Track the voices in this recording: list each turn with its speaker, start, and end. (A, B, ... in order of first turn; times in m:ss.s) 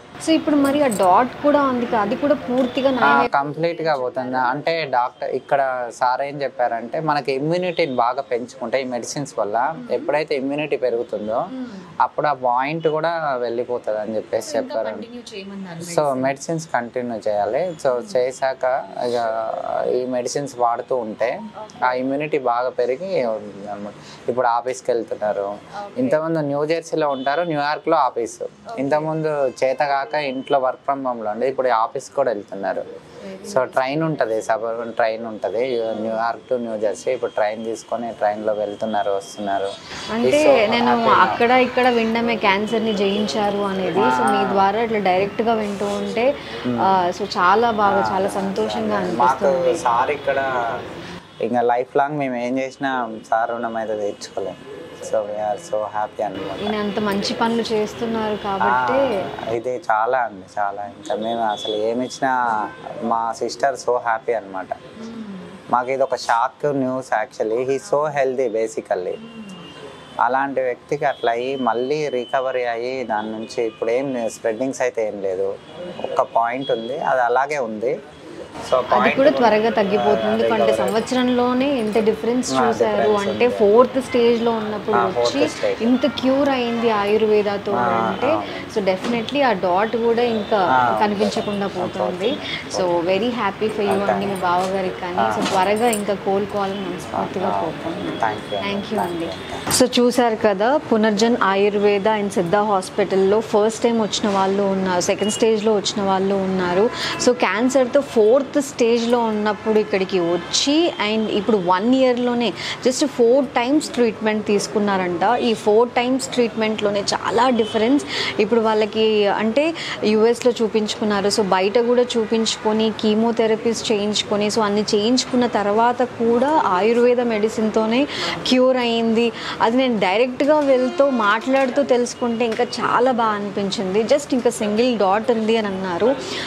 0:00.2-0:04.5 A
0:03.1-0:11.4 B
0:09.8-0:10.1 A
0:11.5-0:11.9 A
0:12.0-0:15.0 B
0:14.4-0:16.3 A
0:15.8-0:21.3 B
0:17.9-0:18.2 A
0:21.6-0:22.1 A
0:21.9-0:32.8 B
0:25.8-0:26.2 A
0:28.7-0:29.1 A
0:33.2-0:34.5 A
0:33.5-0:39.7 B
0:35.9-0:36.3 A
0:40.1-0:49.8 A
0:40.2-0:41.4 B
0:43.9-0:44.6 B
0:47.8-0:50.4 B
0:51.4-0:57.4 B
0:55.2-0:55.6 A
0:56.6-0:59.1 A
0:58.6-1:02.3 B
1:03.1-1:04.7 B
1:05.0-1:05.6 A
1:05.7-1:09.2 B
1:10.2-1:15.5 B
1:16.0-1:17.9 B
1:18.7-1:21.0 B
1:18.9-2:16.1 A
1:22.5-1:23.7 B
1:24.9-1:25.8 B
1:27.7-1:28.6 B
1:30.8-1:32.9 B
1:33.9-1:34.4 B
1:37.1-1:39.6 B